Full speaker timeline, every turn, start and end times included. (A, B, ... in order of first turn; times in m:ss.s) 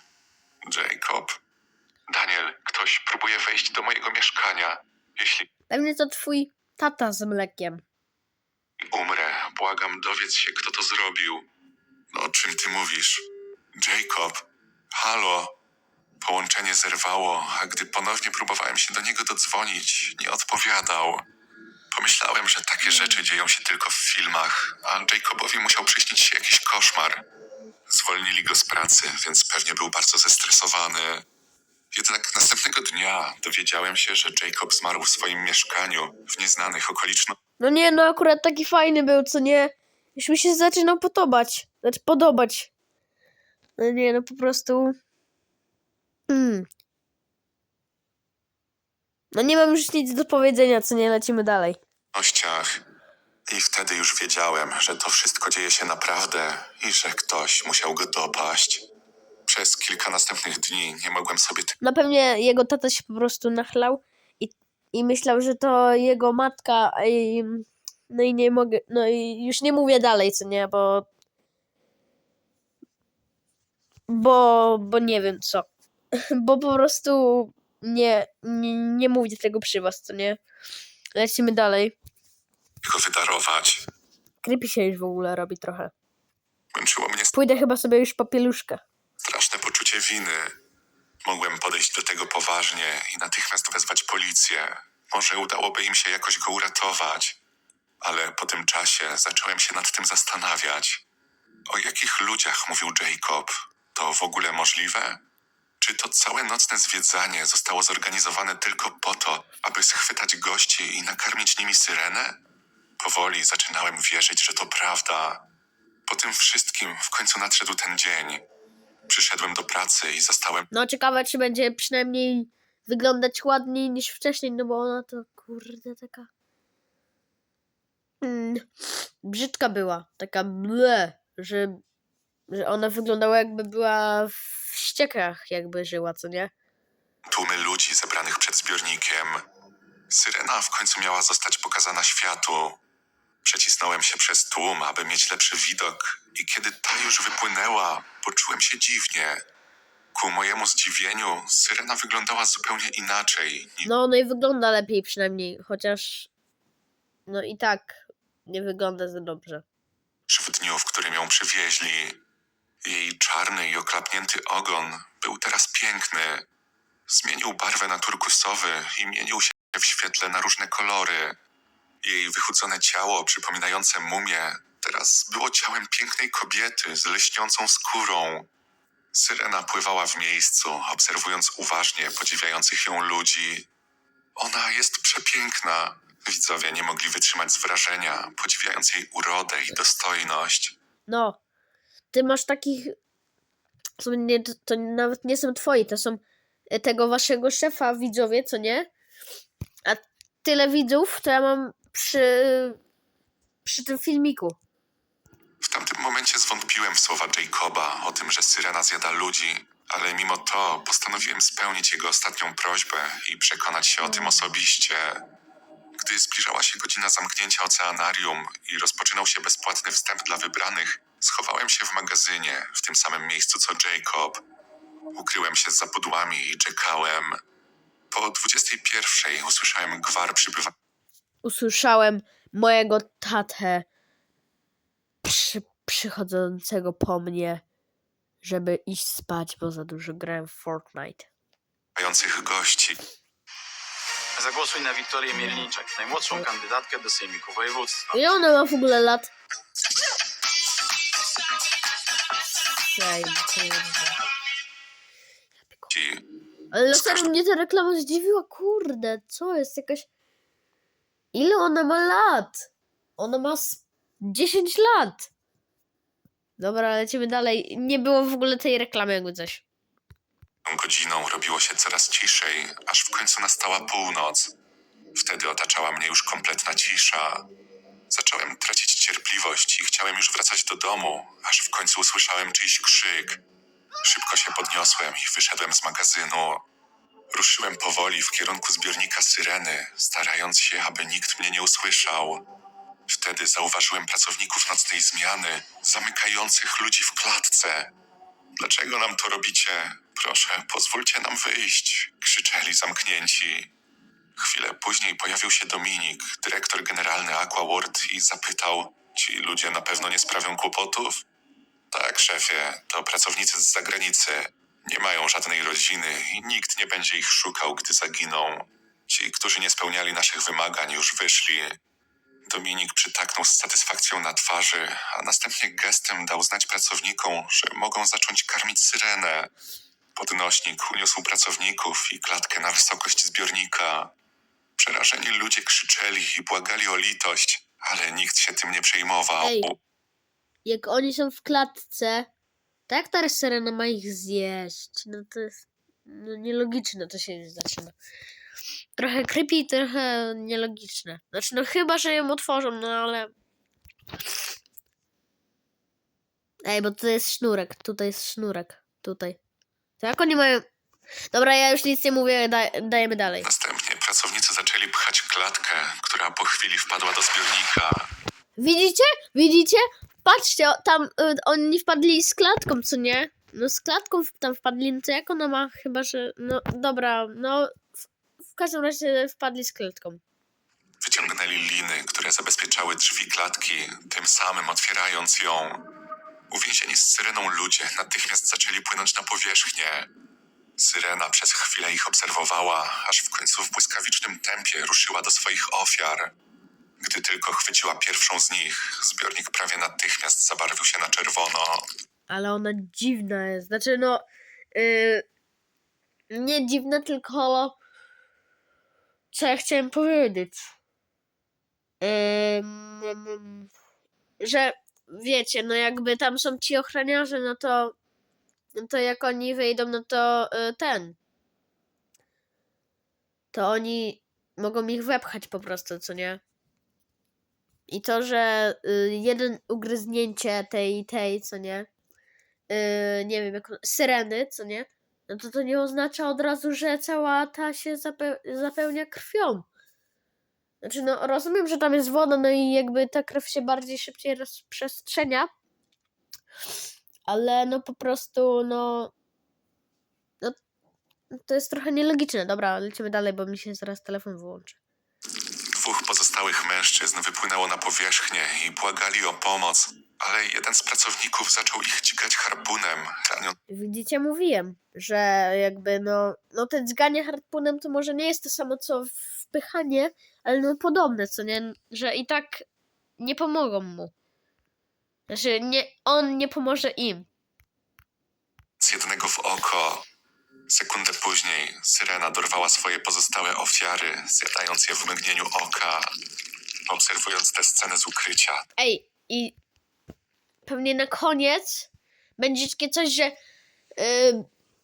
0:00.6-0:01.4 A
0:02.1-0:05.5 A
0:05.7-0:07.8 B
0:08.8-0:11.5 A
0:12.1-0:15.6 A
0:16.2-0:21.3 A
0:21.9-0:27.2 A
0:27.9-0:31.2 A
0:31.9-0:37.4 A
0:37.6-0:42.7 B
0:43.8-0:45.0 B
0:46.3-0:46.7 B
0:49.3-0:51.8 B
0:52.1-0:52.8 A
0:53.5-0:58.8 A
0:59.4-1:01.8 A
1:01.8-1:11.1 B
1:14.1-1:20.4 B
1:21.2-1:21.9 B
1:22.8-1:23.8 A
1:24.4-1:25.9 B
1:26.7-1:27.4 A
1:27.3-1:28.8 B
1:29.2-1:30.5 A
1:31.2-1:37.4 A
1:38.0-1:41.0 A
1:41.7-1:45.2 A
1:45.8-1:52.4 A
1:53.0-1:55.5 A
1:56.1-1:58.4 A
1:59.1-2:00.7 A
2:00.7-2:06.3 B
2:08.2-2:11.8 B
2:12.5-2:16.5 B
2:17.2-2:19.4 A
2:20.1-2:22.8 A
2:23.4-2:29.4 A
2:30.1-2:33.9 A
2:33.8-2:36.3 B
2:37.3-2:39.6 B
2:40.3-2:42.2 A
2:42.8-2:46.4 A
2:47.1-2:51.4 A
2:52.0-2:58.5 A
2:59.1-3:03.7 A
3:04.4-3:10.7 A
3:11.1-3:11.4 B
3:12.1-3:12.9 B
3:14.0-3:18.9 B
3:19.8-3:22.8 B
3:23.6-3:24.6 B
3:25.6-3:35.2 A
3:36.0-3:44.4 A
3:45.1-3:47.4 A
3:48.1-3:50.7 A
3:51.4-3:53.8 B
3:55.2-3:57.6 B
3:58.4-4:01.3 B
4:01.9-4:03.0 A
4:04.4-4:08.1 C
4:08.1-4:09.3 B
4:12.9-4:14.2 B
4:15.6-4:15.9 B
4:15.9-4:16.2 A
4:16.7-4:20.1 B
4:16.9-4:17.3 A
4:21.3-4:25.3 B
4:26.6-4:29.6 B
4:30.6-4:34.5 A
4:35.1-4:37.5 A
4:38.1-4:43.4 A
4:44.0-4:46.6 A
4:47.3-4:52.4 A
4:53.1-4:57.9 A
4:58.6-5:03.7 A
5:04.4-5:11.2 A
5:11.9-5:21.8 A
5:22.5-5:29.5 A
5:30.1-5:34.1 A
5:34.8-5:39.8 A
5:39.4-5:39.7 B
5:40.6-5:42.3 B
5:42.9-5:47.9 B
5:49.0-5:53.3 B
5:56.6-5:59.4 B
6:00.0-6:00.6 B
6:01.3-6:03.5 B
6:03.4-6:08.1 A
6:08.6-6:17.9 B
6:18.5-6:20.2 B
6:21.0-6:25.9 A
6:26.5-6:30.1 A
6:30.8-6:36.3 A
6:37.0-6:41.9 A
6:42.3-6:45.2 B
6:46.3-6:47.8 B
6:49.3-6:50.7 B
6:52.0-6:53.7 B
6:54.4-6:57.9 B
6:58.7-7:01.2 B
7:03.5-7:06.4 B
7:07.9-7:11.9 B
7:12.7-7:19.6 B
7:20.8-7:25.5 B
7:27.3-7:29.1 B
7:31.3-7:34.8 B
7:35.7-7:43.6 A
7:43.7-7:52.6 B
7:53.2-7:54.1 B
7:55.3-7:57.3 B
7:58.8-8:00.0 A
8:00.7-8:06.1 A
8:06.9-8:08.6 A
8:08.8-8:09.5 B
8:10.6-8:13.4 B
8:14.0-8:14.5 B